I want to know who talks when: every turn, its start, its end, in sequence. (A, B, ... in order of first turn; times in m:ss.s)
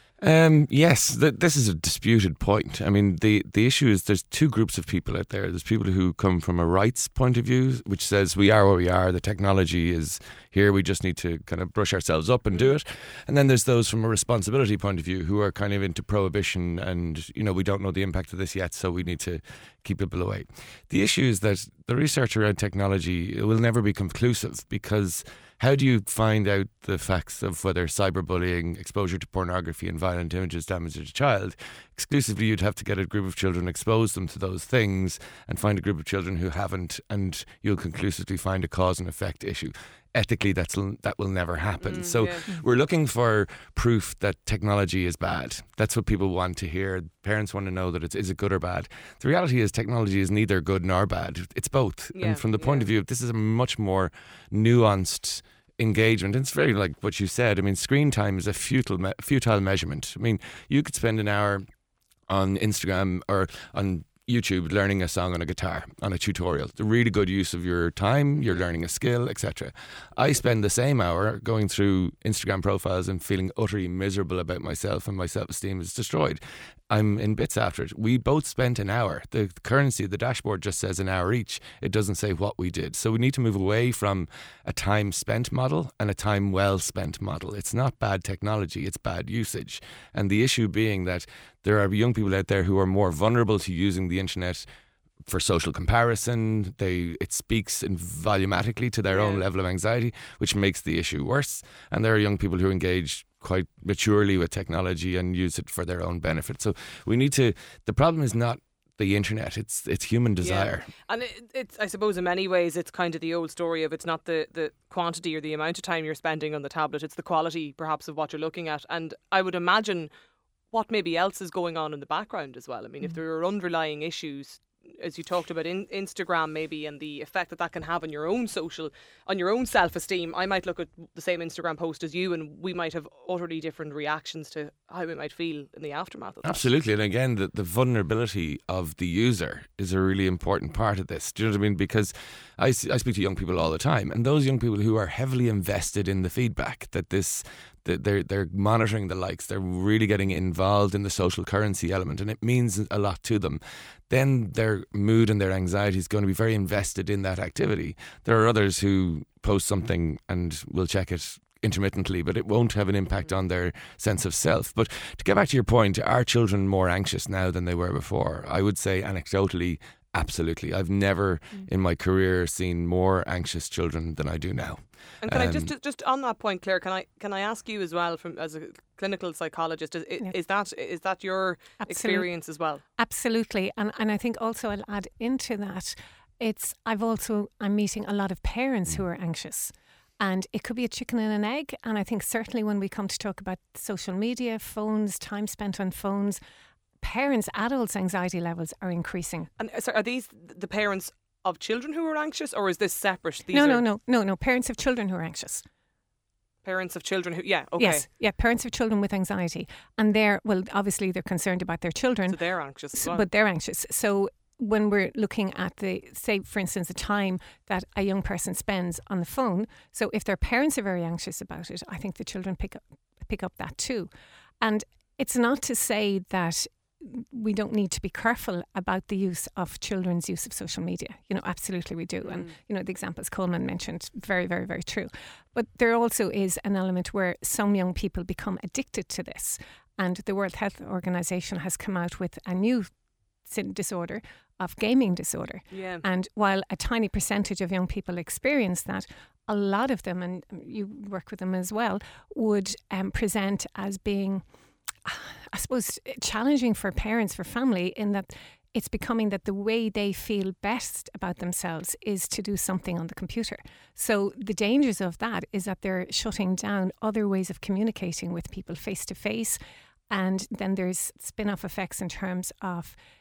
0:00.2-1:01.6 A
0:41.8-0:42.5 B
0:52.1-0:52.9 B
1:02.3-1:34.7 A
1:35.2-1:50.9 A
1:39.1-1:39.4 B
1:50.4-2:00.1 B
2:00.7-2:16.6 B
2:16.4-2:55.7 A
2:55.2-3:02.8 B
3:01.8-3:02.3 C
3:03.0-3:16.4 C
3:17.0-3:19.5 C
3:19.6-3:23.8 B
3:23.5-3:25.6 C
3:26.6-3:28.0 B
3:27.8-3:32.4 C
3:32.3-3:33.2 B
3:32.9-3:44.1 C
3:44.6-4:02.9 C
3:52.2-3:52.5 B
4:03.4-4:14.4 C
4:05.7-4:06.0 B
4:15.0-4:29.6 C
4:30.1-4:33.0 C